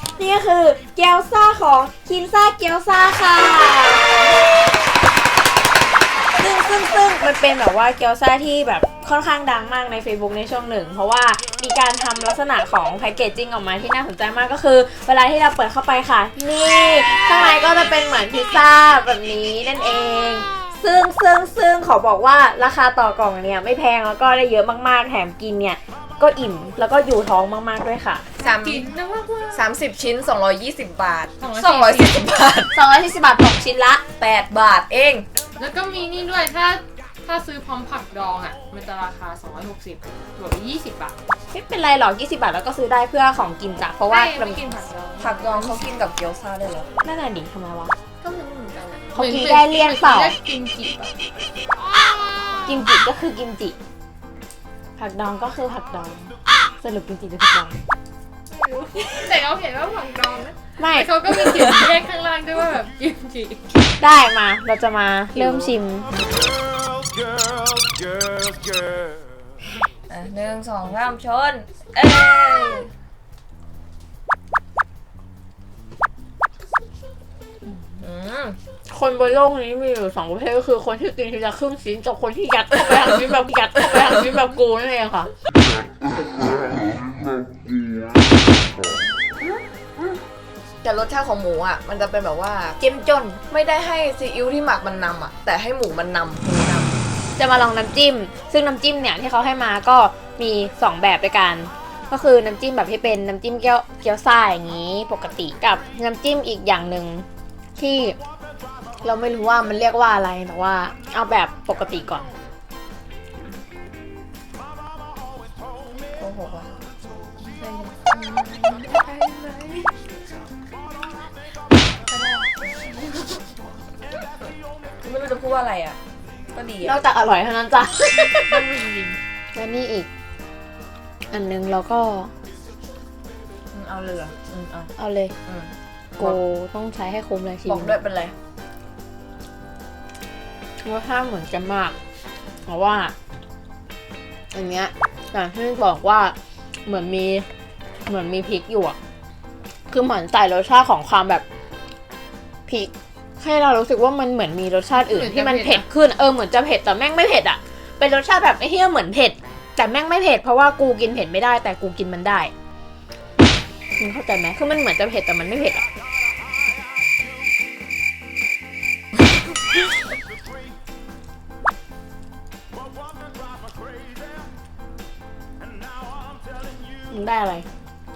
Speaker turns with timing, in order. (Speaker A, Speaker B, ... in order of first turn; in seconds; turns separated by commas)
Speaker A: 0.1-4.2, Speaker A: 6.4-28.2, Speaker B: 28.4-28.9, Speaker C: 28.4-29.7, Speaker B: 29.5-32.7, Speaker C: 31.4-32.2, Speaker A: 32.7-34.0, Speaker B: 34.2-35.3, Speaker C: 35.6-41.1, Speaker A: 41.5-44.6, Speaker C: 44.1-45.9, Speaker B: 45.2-46.9, Speaker A: 47.0-47.9, Speaker C: 48.2-51.1, Speaker A: 49.1-50.4, Speaker A: 52.6-53.8, Speaker A: 55.0-57.8, Speaker C: 58.5-63.6, Speaker A: 60.8-61.7, Speaker A: 64.0-66.1, Speaker B: 70.1-72.9, Speaker B: 77.8-78.6, Speaker A: 78.9-85.3, Speaker B: 90.8-92.8, Speaker A: 92.8-93.4, Speaker B: 93.5-97.0, Speaker A: 97.4-107.2, Speaker A: 107.8-108.2, Speaker A: 109.0-112.3, Speaker B: 116.2-116.8, Speaker C: 117.4-119.9, Speaker C: 122.1-122.5, Speaker B: 125.0-126.0, Speaker B: 126.5-127.0, Speaker A: 126.8-128.6, Speaker C: 128.5-129.2, Speaker A: 129.5-130.1, Speaker A: 131.3-132.3, Speaker B: 133.7-134.9, Speaker A: 135.0-135.3, Speaker B: 135.4-136.4, Speaker A: 136.2-138.0, Speaker B: 137.7-138.3, Speaker A: 140.8-141.9, Speaker A: 142.7-143.1, Speaker A: 144.5-147.4, Speaker A: 148.1-148.9, Speaker A: 149.9-151.4, Speaker A: 152.7-162.5, Speaker C: 155.0-155.8, Speaker A: 164.0-165.9, Speaker A: 177.1-177.7